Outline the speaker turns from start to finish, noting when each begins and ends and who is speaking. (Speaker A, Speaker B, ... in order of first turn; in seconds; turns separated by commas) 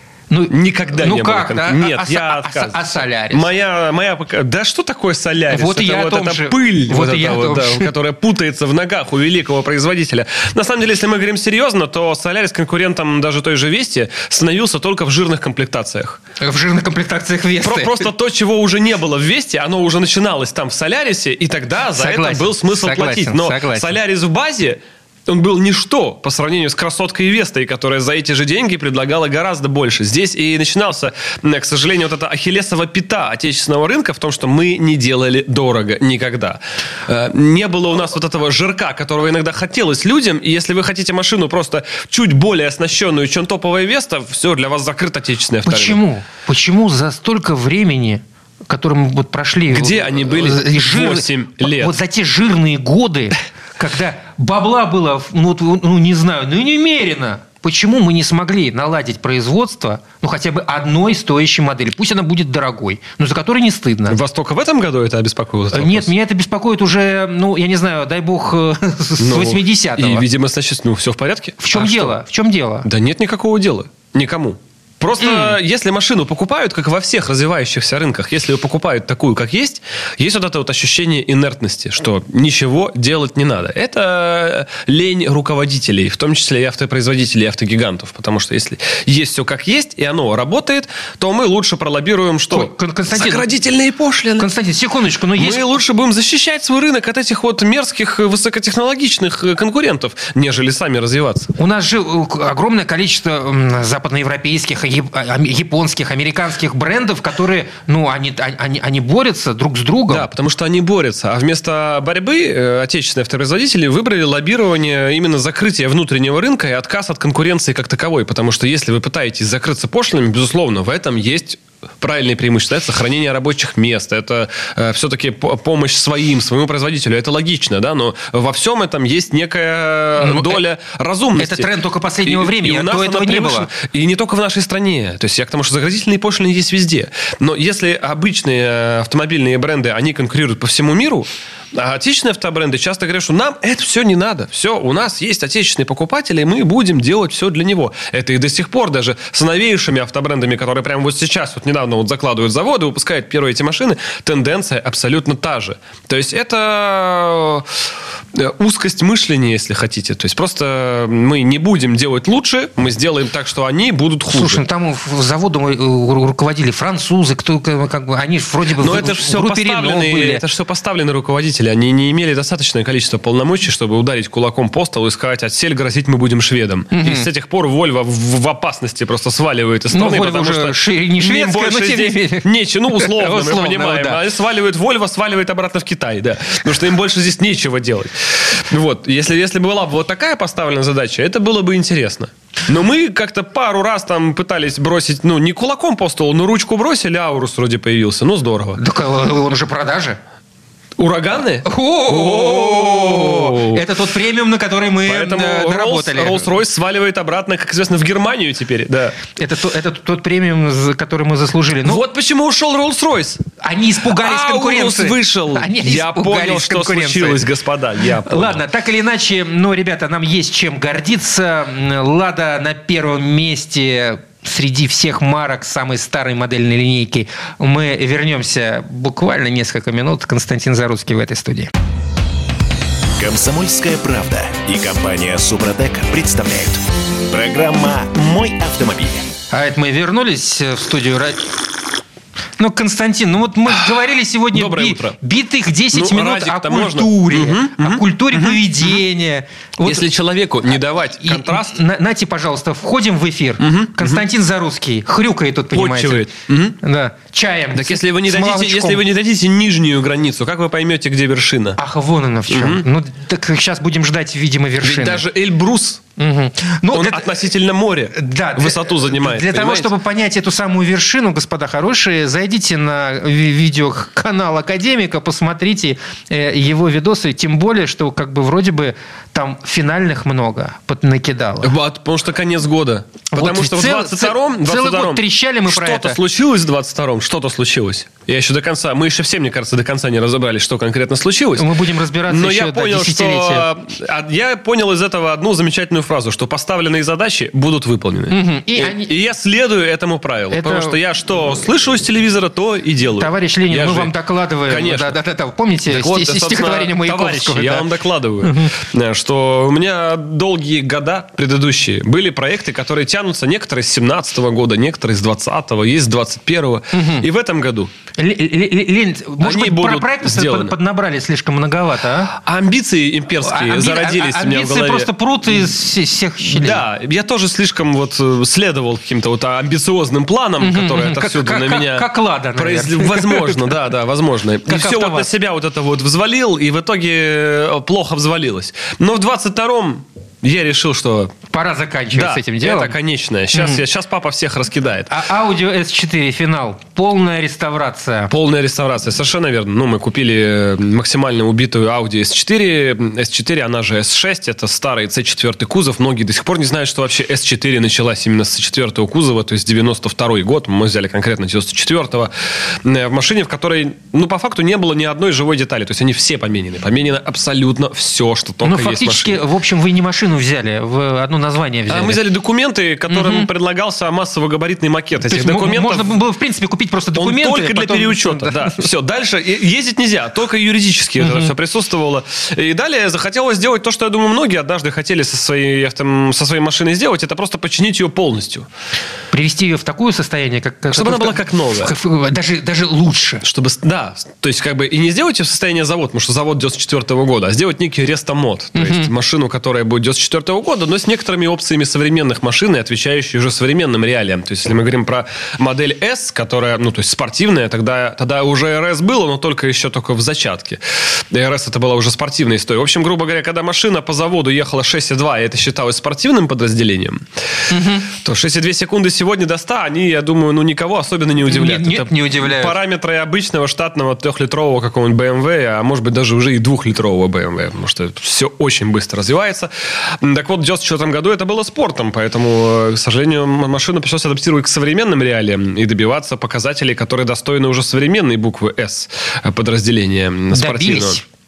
Speaker A: 0.3-3.5, Speaker B: 0.5-16.2, Speaker A: 5.5-7.9, Speaker A: 16.4-18.1, Speaker B: 17.6-46.0, Speaker A: 21.9-23.9, Speaker A: 45.7-64.2, Speaker B: 49.7-51.9, Speaker B: 64.1-66.1, Speaker A: 65.7-70.2, Speaker B: 69.2-72.2, Speaker A: 71.6-72.9, Speaker B: 72.8-94.5, Speaker A: 75.2-75.6, Speaker A: 92.5-93.5, Speaker A: 94.4-95.7, Speaker B: 95.4-101.5, Speaker A: 101.6-110.3, Speaker B: 110.1-131.7, Speaker A: 130.2-130.6, Speaker A: 131.4-133.7, Speaker B: 132.2-157.7, Speaker B: 158.3-164.6, Speaker A: 164.3-170.4, Speaker B: 168.8-198.8, Speaker A: 176.9-177.3, Speaker A: 179.9-184.2, Speaker A: 198.8-200.2, Speaker B: 201.0-203.9, Speaker A: 201.7-206.5, Speaker B: 205.1-209.2, Speaker A: 209.4-212.0, Speaker B: 211.8-213.4, Speaker A: 213.6-217.4, Speaker B: 214.1-218.6, Speaker A: 218.3-231.7, Speaker C: 233.2-239.3, Speaker A: 239.5-241.4, Speaker A: 242.6-250.1, Speaker B: 244.5-245.2, Speaker B: 245.9-249.0, Speaker B: 249.8-251.8, Speaker A: 251.2-256.3, Speaker B: 253.6-254.2, Speaker B: 255.7-256.8, Speaker A: 256.8-259.0, Speaker B: 257.7-261.8, Speaker A: 261.8-265.2, Speaker B: 262.5-262.9, Speaker B: 264.8-266.0, Speaker A: 266.2-267.3, Speaker B: 266.9-269.9, Speaker A: 268.1-281.7, Speaker B: 281.6-291.7, Speaker A: 283.3-286.2, Speaker A: 291.6-293.7, Speaker B: 292.3-304.1, Speaker A: 298.3-299.1, Speaker A: 300.5-301.0, Speaker A: 303.2-308.7, Speaker B: 304.7-305.2, Speaker B: 305.9-317.9, Speaker A: 316.9-317.3, Speaker A: 318.2-322.4, Speaker B: 319.4-320.8, Speaker B: 322.3-325.7, Speaker A: 323.4-326.8, Speaker B: 326.4-341.4, Speaker A: 330.6-333.8, Speaker A: 334.7-335.3, Speaker A: 341.5-342.9, Speaker B: 342.1-345.2, Speaker A: 343.5-343.8, Speaker A: 345.1-348.3, Speaker B: 348.3-369.4, Speaker A: 368.6-372.2, Speaker B: 371.9-376.1, Speaker A: 373.1-373.5, Speaker A: 375.2-378.9, Speaker B: 377.1-388.7, Speaker A: 381.2-381.5, Speaker A: 389.3-393.4, Speaker B: 390.9-391.9, Speaker B: 393.4-417.3, Speaker A: 398.8-399.1, Speaker A: 417.7-418.1, Speaker B: 418.1-441.2, Speaker A: 421.5-422.8, Speaker A: 440.5-441.2